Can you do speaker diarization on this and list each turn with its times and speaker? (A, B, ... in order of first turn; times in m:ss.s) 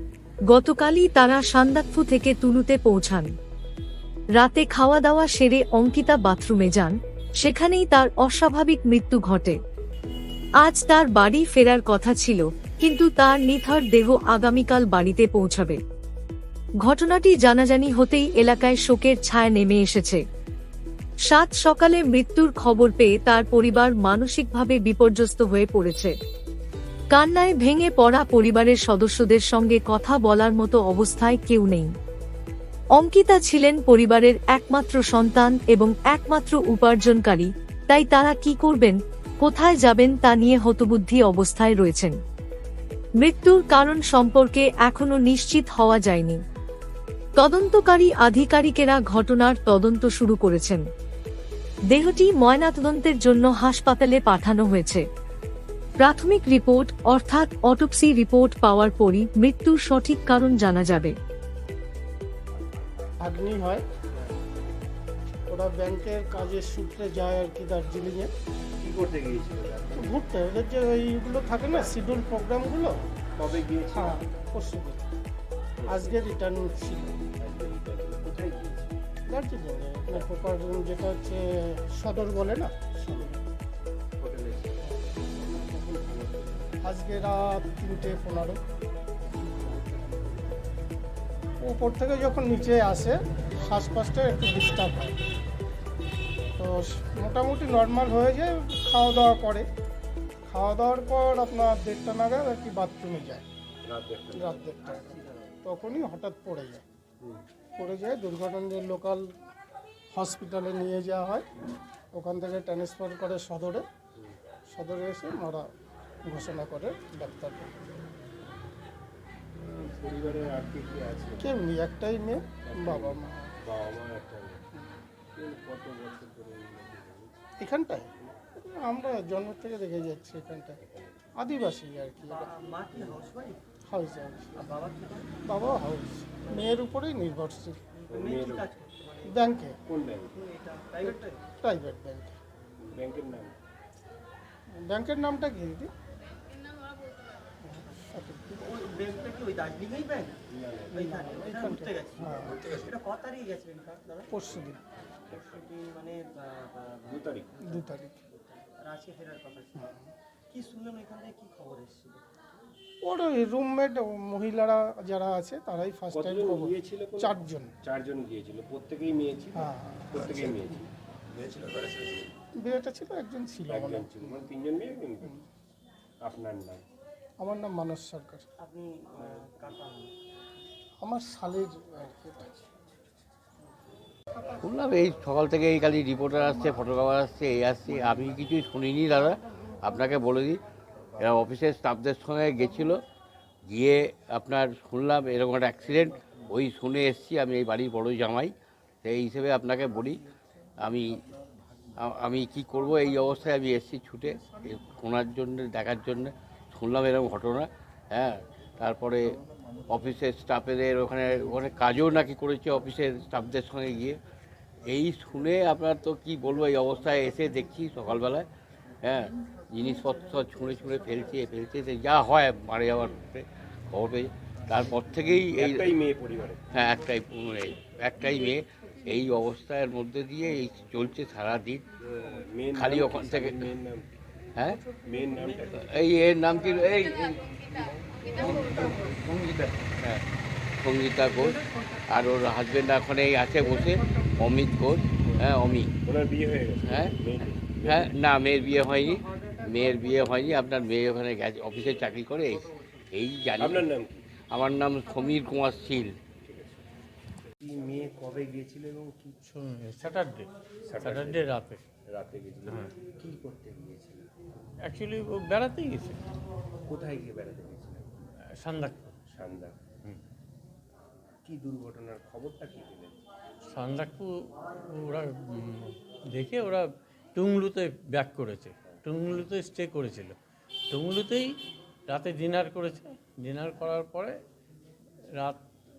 0:00.5-0:03.3 A
0:04.4-0:09.6 A
0:10.6-0:15.8 A
0:16.8-0:20.2 A
0:21.3-0:26.1 A
0:27.1-0:31.9 A
0:33.0-0:42.2 A
0:43.2-0:46.4 A
0:47.4-0:50.8 A
0:51.9-0:55.0 A
0:56.0-1:01.2 A
1:03.2-1:03.8 B
1:05.5-1:08.3 B
1:08.8-1:10.2 C
1:10.0-1:12.9 B
1:13.4-1:14.2 C
1:13.9-1:15.0 B
1:15.8-1:16.2 C
1:15.9-1:17.2 B
1:17.4-1:18.9 C
1:19.3-1:23.0 B
1:23.0-1:23.3 C
1:24.2-1:24.9 C
1:24.8-1:25.1 B
1:25.4-1:26.8 C
1:26.8-1:28.6 B
1:29.6-1:30.2 C
1:31.6-1:35.2 B
1:36.6-1:39.7 B
1:40.5-1:43.5 B
1:43.8-1:44.6 C
1:44.3-1:46.8 B
1:44.6-1:45.5 D
1:47.2-1:47.4 C
1:47.8-1:49.3 B
1:50.1-1:51.4 B
1:52.1-1:53.8 B
1:54.7-1:55.7 B
1:56.2-1:57.7 B
1:59.6-2:01.6 C
2:01.4-2:03.5 B
2:02.6-2:04.7 C
2:05.4-2:07.3 C
2:07.6-2:10.8 B
2:10.8-2:11.3 C
2:11.4-2:12.5 B
2:12.2-2:13.6 D
2:12.9-2:13.2 C
2:13.9-2:14.6 B
2:14.6-2:15.4 D
2:15.4-2:17.8 B
2:16.4-2:16.8 D
2:17.9-2:19.6 D
2:18.1-2:18.7 C
2:19.2-2:19.8 B
2:19.8-2:20.4 C
2:20.3-2:21.4 D
2:21.0-2:22.4 B
2:22.8-2:23.6 C
2:24.8-2:25.9 B
2:27.6-2:29.1 B
2:28.6-2:34.4 D
2:30.5-2:31.0 C
2:30.9-2:32.7 B
2:34.3-2:34.8 B
2:35.2-2:35.7 C
2:35.3-2:39.9 D
2:37.1-2:37.6 C
2:37.6-2:38.2 B
2:39.7-2:40.1 B
2:40.5-2:42.2 D
2:43.0-2:47.7 B
2:46.1-2:52.3 C
2:49.5-2:50.3 B
2:52.6-2:54.4 B
2:53.7-2:55.3 C
2:56.2-2:56.8 C
2:57.4-2:58.5 B
2:58.6-3:00.1 D
2:59.2-2:59.4 C
3:01.0-3:02.6 B
3:04.6-3:10.6 E
3:11.2-3:13.0 E
3:13.7-3:18.5 E
3:19.0-3:20.2 E
3:20.8-3:21.2 E
3:22.0-3:29.4 E
3:29.9-3:34.2 E
3:34.8-3:38.5 E
3:39.0-3:46.0 E
3:45.5-3:46.6 C
3:46.7-3:51.8 E
3:52.0-3:54.1 C
3:52.7-3:53.7 E
3:54.6-3:54.9 E
3:54.9-3:55.8 C
3:55.1-3:56.1 D
3:55.7-3:57.6 E
3:58.3-4:00.2 E
3:58.8-3:59.4 D
4:00.8-4:05.9 E
4:06.0-4:08.1 C
4:06.8-4:07.2 E
4:07.8-4:13.9 E
4:08.6-4:10.8 D
4:13.6-4:14.3 C
4:14.4-4:16.2 E
4:16.4-4:16.8 C
4:17.6-4:19.4 C
4:19.4-4:21.8 F
4:20.8-4:21.5 C
4:22.1-4:24.3 C
4:22.7-4:22.9 F
4:24.8-4:26.2 F
4:26.8-4:28.2 C
4:28.6-4:29.2 F
4:29.2-4:29.8 C
4:31.4-4:33.2 C
4:33.7-4:40.3 F
4:40.9-4:41.6 F
4:42.1-4:44.4 F
4:45.4-4:45.6 F